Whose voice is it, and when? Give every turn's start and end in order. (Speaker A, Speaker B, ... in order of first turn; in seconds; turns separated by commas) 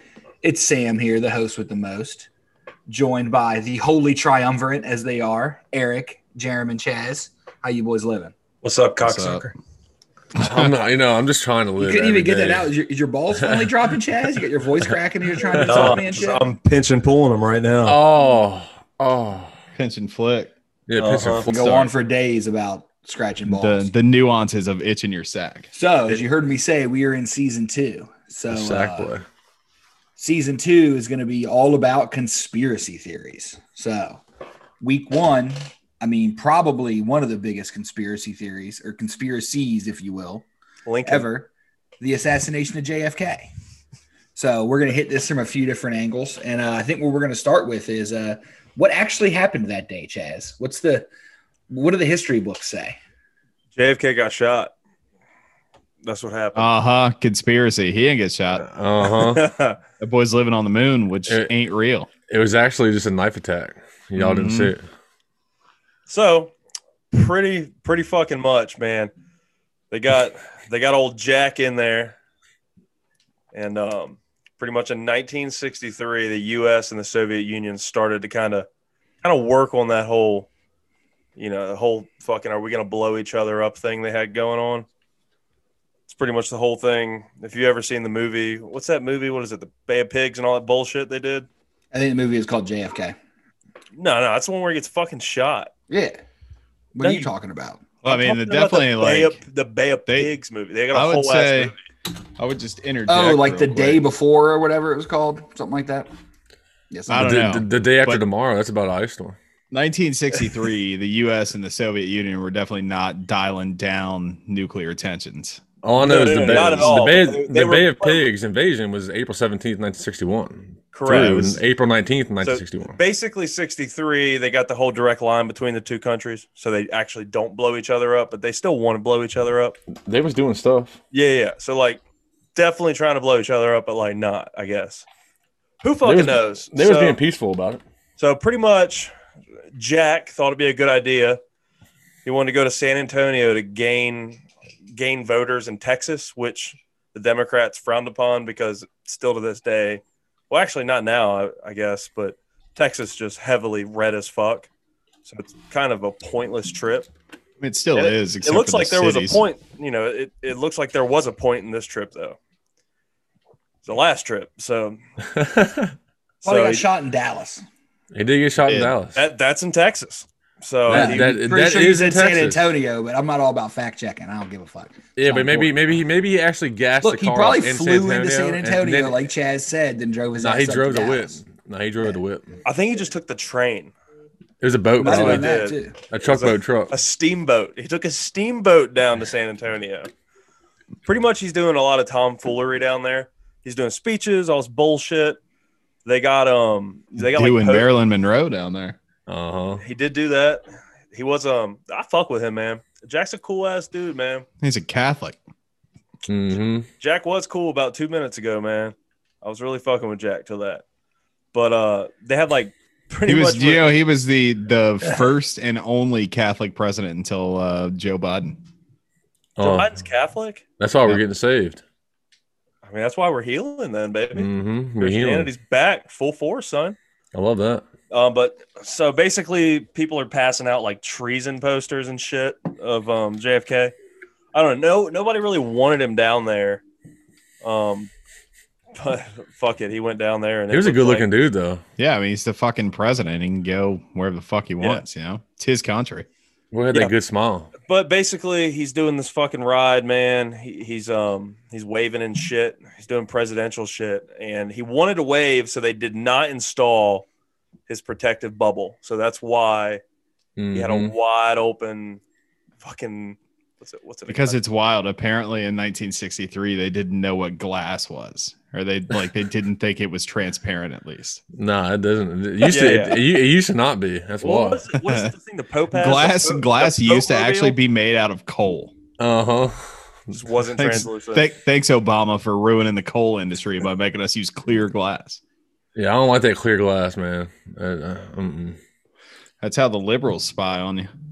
Speaker A: 0.4-2.3, Speaker A: 2.9-8.3, Speaker B: 8.6-9.5, Speaker C: 9.0-9.5, Speaker D: 10.3-12.7, Speaker A: 11.8-16.6, Speaker D: 13.3-13.7, Speaker B: 15.5-18.0, Speaker D: 17.8-19.5, Speaker C: 19.8-20.5, Speaker D: 20.9-21.5, Speaker B: 21.0-21.5, Speaker C: 21.5-21.9, Speaker A: 21.5-23.9, Speaker C: 23.4-25.7, Speaker A: 25.7-29.1, Speaker D: 28.5-29.2, Speaker A: 30.2-34.2, Speaker A: 34.8-40.5, Speaker B: 40.9-41.3, Speaker A: 41.0-43.5, Speaker A: 44.3-51.1, Speaker A: 51.7-53.0, Speaker B: 53.8-54.7, Speaker B: 56.0-56.7, Speaker C: 56.5-58.7, Speaker D: 58.6-59.5, Speaker B: 59.1-59.8, Speaker C: 60.0-62.1, Speaker D: 62.3-64.8, Speaker C: 64.2-64.7, Speaker B: 66.1-66.5, Speaker B: 67.1-69.1, Speaker B: 69.9-72.2, Speaker B: 73.5-78.7, Speaker B: 79.2-80.5, Speaker B: 81.3-84.8, Speaker B: 86.1-91.5, Speaker A: 91.9-93.1, Speaker B: 93.9-95.7, Speaker A: 95.9-96.2, Speaker A: 96.9-97.8, Speaker B: 97.0-97.3, Speaker C: 98.0-99.4, Speaker B: 98.0-101.8, Speaker C: 100.9-101.7, Speaker C: 102.4-104.0, Speaker A: 103.1-106.1, Speaker A: 106.9-107.4, Speaker D: 107.1-109.4, Speaker C: 107.1-108.2, Speaker C: 109.7-115.6, Speaker D: 115.8-123.0, Speaker B: 116.0-118.2, Speaker C: 116.4-116.9, Speaker B: 120.9-121.5, Speaker C: 121.1-121.6, Speaker B: 122.4-129.8, Speaker D: 129.9-131.0, Speaker B: 131.1-132.0, Speaker B: 132.5-135.0, Speaker B: 135.8-137.2, Speaker D: 136.0-137.8, Speaker B: 138.2-139.1, Speaker B: 139.7-141.4, Speaker B: 142.2-144.4, Speaker B: 144.9-154.7, Speaker B: 155.2-157.1, Speaker C: 157.6-159.4, Speaker B: 157.9-162.4, Speaker B: 163.8-165.0, Speaker D: 165.3-165.9, Speaker B: 166.4-166.8, Speaker A: 166.4-167.6, Speaker D: 168.1-169.2, Speaker C: 168.7-168.9, Speaker B: 169.1-171.3, Speaker D: 170.9-172.8, Speaker A: 170.9-176.0, Speaker D: 175.2-179.2, Speaker A: 177.0-181.4, Speaker D: 180.3-182.4, Speaker B: 182.6-183.9, Speaker D: 184.6-185.6, Speaker A: 185.0-185.9, Speaker B: 185.0-190.1, Speaker D: 186.1-186.9, Speaker B: 191.0-195.4, Speaker B: 196.0-197.9, Speaker C: 197.2-199.0, Speaker D: 199.3-199.8, Speaker B: 199.8-204.4, Speaker C: 204.6-205.4, Speaker D: 206.3-206.9, Speaker B: 207.0-210.8, Speaker B: 211.5-213.9, Speaker C: 213.3-218.6, Speaker D: 219.6-219.9, Speaker B: 219.6-220.6, Speaker D: 220.8-221.8, Speaker B: 222.8-227.0, Speaker D: 224.3-225.5, Speaker D: 227.3-227.8, Speaker B: 228.1-233.9, Speaker B: 234.5-236.8, Speaker B: 237.6-238.1, Speaker B: 238.9-241.3, Speaker D: 240.7-241.8, Speaker C: 242.0-246.3, Speaker D: 246.7-247.7, Speaker B: 247.9-257.2, Speaker B: 257.9-260.0, Speaker D: 260.6-261.1, Speaker B: 260.7-262.2, Speaker B: 262.8-264.6, Speaker C: 264.3-271.4, Speaker D: 271.5-274.8, Speaker B: 272.6-273.2, Speaker B: 274.4-277.7, Speaker C: 275.1-275.3, Speaker C: 275.9-278.9, Speaker D: 279.2-280.0, Speaker B: 280.3-281.5, Speaker C: 280.8-285.4, Speaker D: 285.9-288.8, Speaker C: 289.6-291.1